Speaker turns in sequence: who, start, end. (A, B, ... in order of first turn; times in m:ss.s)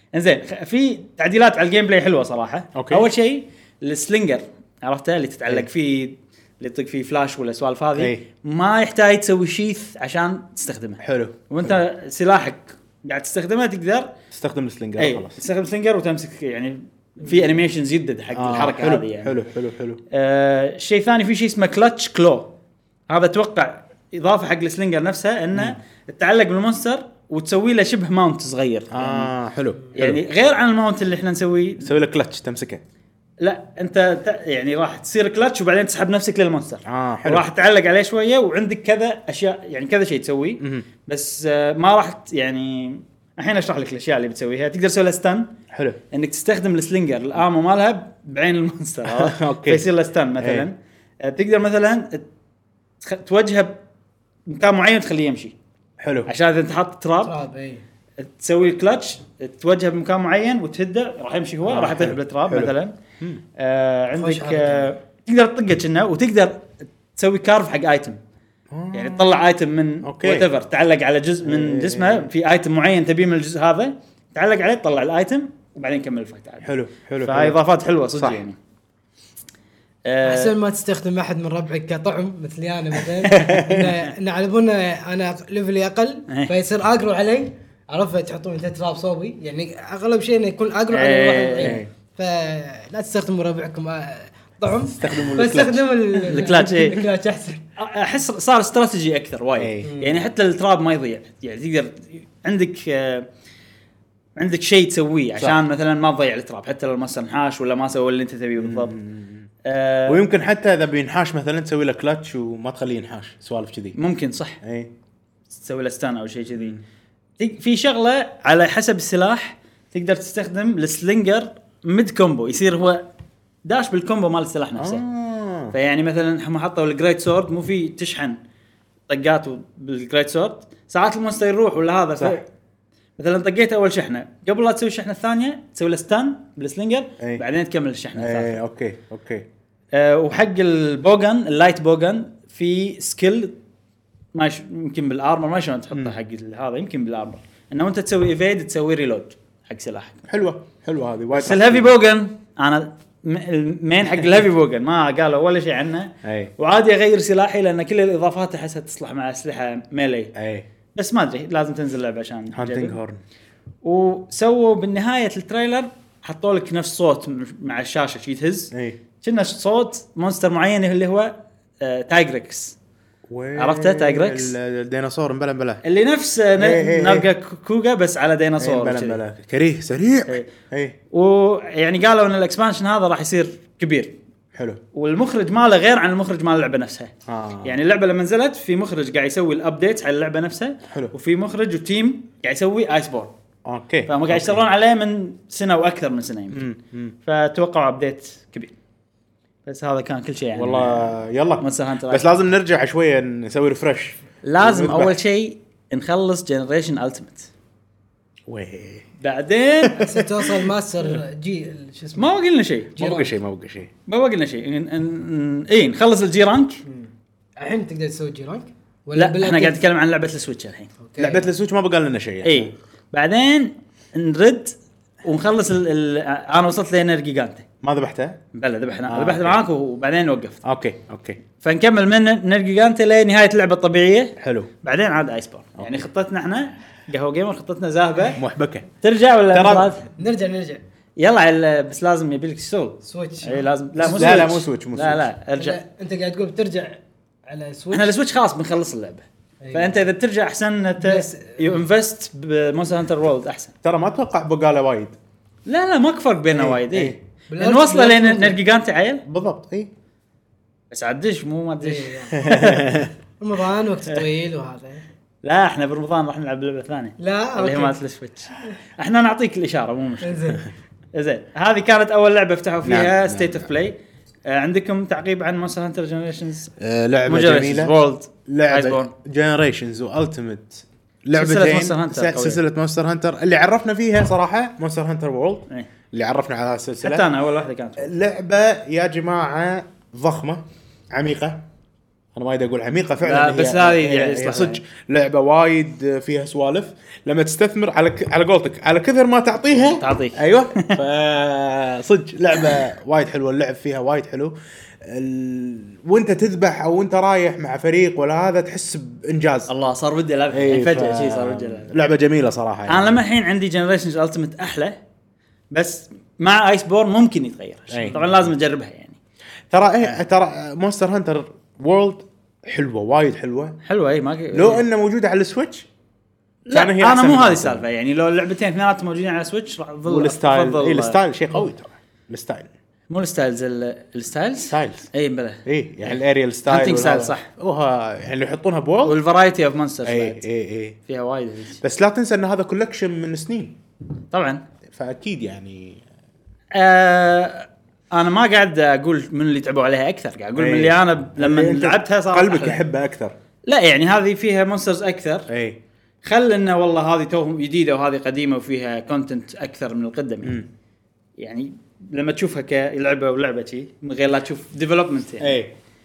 0:00.1-0:14.1 A
0:02.8-0:03.1 B
0:08.0-0:08.2 B
0:11.0-0:11.8 B
0:14.3-0:15.4 B
0:15.0-0:19.4 A
0:18.3-0:20.0 B
0:20.1-0:22.5 A
0:23.1-0:29.3 A
0:28.9-0:30.2 B
0:30.0-0:31.9 A
0:31.8-0:32.8 B
0:33.4-0:45.5 A
0:36.8-0:37.4 B
0:40.6-0:40.9 B
0:45.7-0:46.0 B
0:46.1-0:52.2 A
0:49.0-0:49.9 B
0:50.4-0:50.7 B
0:53.0-0:53.8 A
0:54.5-0:55.6 A
0:56.0-0:56.3 B
0:56.2-0:57.4 A
0:57.2-0:57.8 C
0:58.2-1:03.0 A
1:01.7-1:03.4 B
1:03.6-1:08.2 A
1:04.2-1:04.9 C
1:08.7-1:09.2 B
1:08.9-1:18.6 A
1:10.0-1:10.5 B
1:11.4-1:12.3 B
1:16.6-1:17.6 B
1:18.1-1:18.4 B
1:20.0-1:20.5 A
1:20.2-1:37.6 C
1:23.2-1:23.6 A
1:23.3-1:24.0 B
1:30.9-1:31.8 A
1:31.6-1:31.9 B
1:35.0-1:36.2 B
1:36.3-1:37.0 A
1:37.8-1:43.3 A
1:39.6-1:40.0 B
1:39.8-1:40.2 C
1:44.4-1:49.0 A
1:48.6-1:49.5 B
1:49.6-1:50.2 A
1:50.1-1:54.0 B
1:54.0-1:54.6 A
1:54.6-1:54.9 B
1:55.6-1:56.8 A
1:56.5-1:56.8 B
1:57.4-2:03.1 A
2:03.6-2:05.0 A
2:04.8-2:05.8 B
2:05.7-2:08.4 A
2:09.1-2:12.4 A
2:13.2-2:18.6 A
2:18.2-2:19.5 B
2:19.9-2:23.6 A
2:24.3-2:30.2 A
2:30.3-2:31.9 B
2:31.3-2:40.3 A
2:36.2-2:36.5 B
2:40.4-2:40.7 B
2:41.0-2:43.0 A
2:42.5-2:43.2 B
2:43.8-2:52.8 A
2:48.7-2:49.0 B
2:53.3-2:55.8 B
2:53.6-2:54.5 A
2:55.8-2:59.2 A
2:56.6-2:57.3 B
2:58.6-3:01.0 B
3:01.1-3:04.2 A
3:04.5-3:04.8 B
3:04.9-3:13.3 A
3:07.2-3:07.8 B
3:10.9-3:11.1 B
3:13.6-3:14.6 B
3:14.1-3:16.6 A
3:16.5-3:17.2 B
3:17.2-3:18.7 A
3:19.7-3:22.3 A
3:20.6-3:25.2 B
3:24.4-3:27.5 A
3:28.5-3:29.1 B
3:29.2-3:30.0 A
3:29.8-3:30.7 B
3:30.0-3:32.3 C
3:32.2-3:33.0 A
3:33.0-3:33.3 C
3:33.0-3:33.9 B
3:34.1-3:36.8 A
3:36.9-3:39.8 C
3:39.2-3:40.9 A
3:41.0-3:41.5 C
3:41.2-3:42.7 B
3:42.4-3:47.7 A
3:47.8-3:48.4 B
3:48.5-3:50.6 A
3:49.1-3:49.6 B
3:50.6-3:51.4 B
3:51.6-3:58.4 A
3:54.4-3:54.7 B
3:55.8-3:56.1 B
3:58.4-3:58.9 B
3:59.0-4:00.1 A
3:59.5-3:59.9 B
4:00.2-4:00.8 C
4:01.2-4:05.8 A
4:03.0-4:03.7 C
4:04.0-4:05.3 B
4:05.6-4:08.1 C
4:07.9-4:13.7 A
4:09.6-4:10.0 C
4:11.0-4:11.8 C
4:13.8-4:15.2 B
4:15.7-4:19.2 A
4:16.5-4:17.2 B
4:17.5-4:18.6 C
4:19.2-4:19.9 B
4:20.9-4:23.0 A
4:21.8-4:22.8 C
4:22.4-4:23.1 B
4:23.4-4:25.0 C
4:25.4-4:30.6 A
4:27.2-4:28.0 C
4:30.2-4:30.6 C
4:31.1-4:36.7 A
4:32.8-4:33.7 B
4:36.8-4:38.0 B
4:37.2-4:39.1 A
4:38.5-4:47.3 B
4:41.3-4:42.6 A
4:47.0-4:48.1 A
4:48.0-4:51.6 B
4:52.4-5:09.7 B
4:53.2-4:54.8 A
4:59.9-5:01.0 A
5:09.7-5:12.0 A
5:10.5-5:13.2 B
5:12.9-5:15.0 A
5:15.7-5:19.2 A
5:17.9-5:18.5 B
5:19.7-5:23.8 B
5:23.8-5:24.8 A
5:24.5-5:25.9 B
5:26.7-5:31.2 A
5:26.7-5:27.8 B
5:30.1-5:32.7 B
5:33.1-5:37.5 A
5:34.7-5:35.1 B
5:35.6-5:39.2 B
5:39.0-5:40.4 A
5:40.0-5:41.0 B
5:41.1-5:41.8 A
5:41.8-5:43.8 B
5:44.3-5:44.6 A
5:44.9-5:46.0 B
5:46.7-5:52.8 A
5:50.6-5:53.4 B
5:53.6-5:55.5 A
5:55.5-5:55.8 B
5:56.2-6:00.6 A
6:00.4-6:00.7 B
6:01.4-6:05.6 A
6:05.4-6:05.7 B